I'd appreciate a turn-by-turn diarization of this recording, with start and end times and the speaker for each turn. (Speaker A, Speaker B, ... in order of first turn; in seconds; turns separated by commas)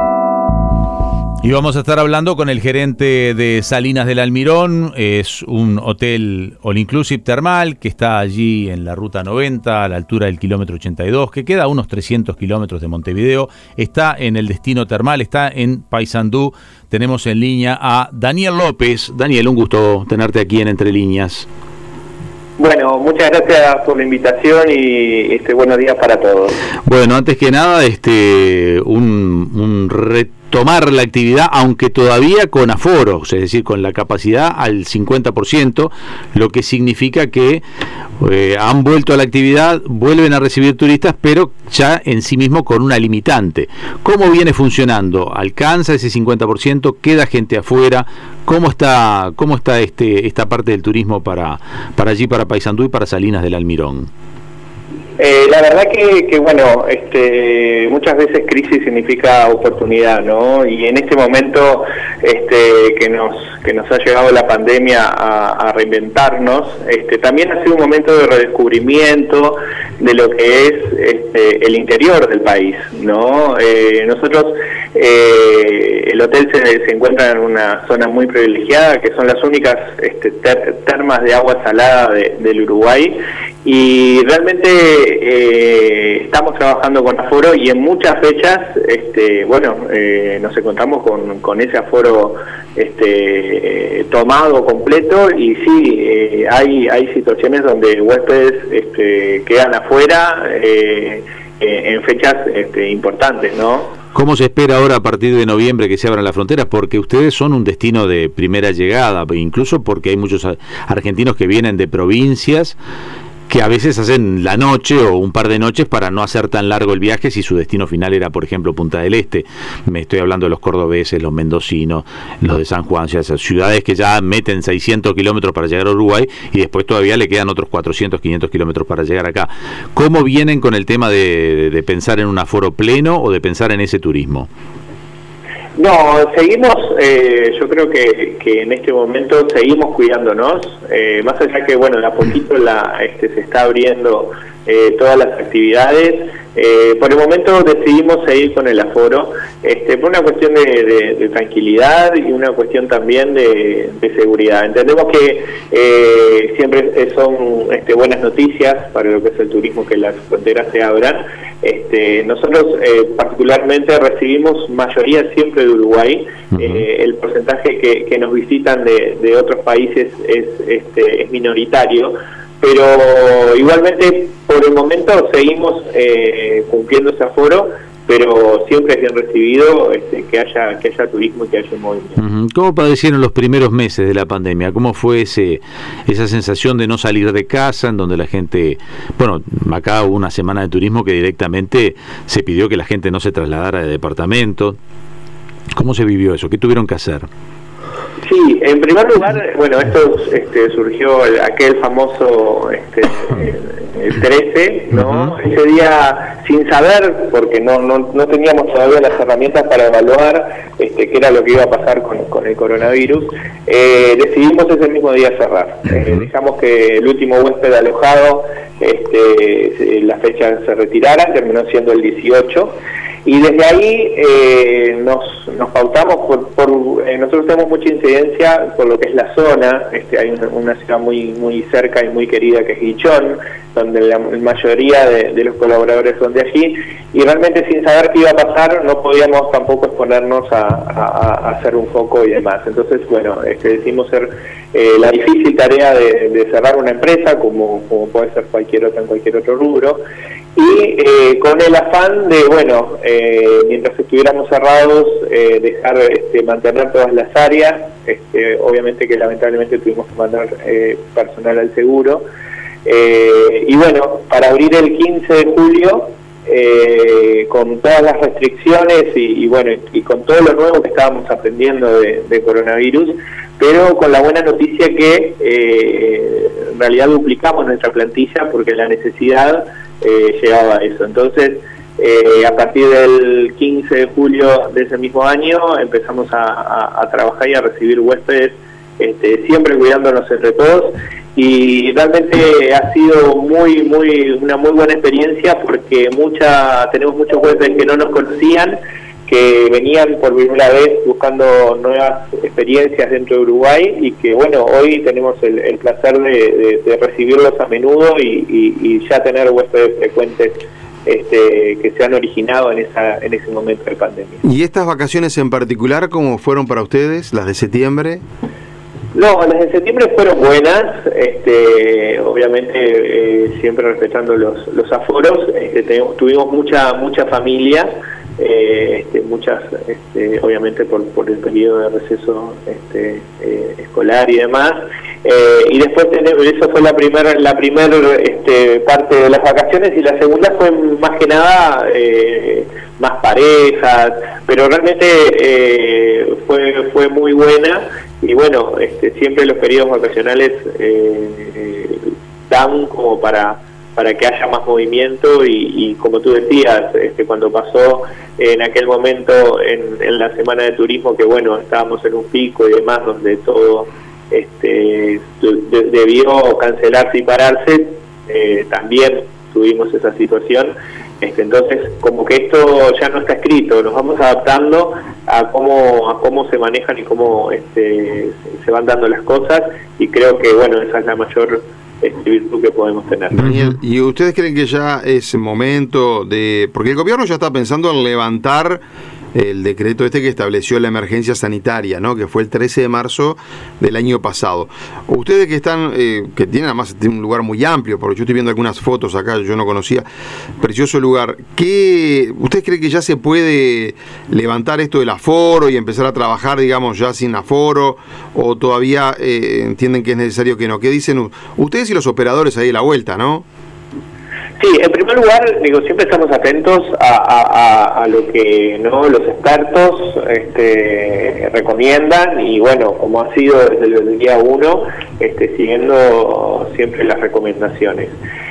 Speaker A: 1.4-21.4, Speaker B: 22.6-26.6, Speaker A: 26.8-37.6, Speaker A: 38.2-54.1, Speaker B: 55.2-103.9, Speaker A: 104.1-112.8, Speaker A: 113.5-134.5, Speaker B: 135.8-182.2, Speaker A: 166.5-166.8, Speaker A: 182.2-194.8, Speaker A: 195.8-197.3, Speaker B: 198.2-250.0, Speaker A: 204.9-205.3, Speaker B: 250.5-262.2, Speaker B: 262.8-314.4, Speaker C: 314.4-318.2, Speaker B: 319.1-383.4, Speaker C: 383.3-388.8, Speaker A: 383.4-383.8, Speaker C: 389.3-400.1, Speaker C: 400.6-413.4, Speaker B: 414.6-428.1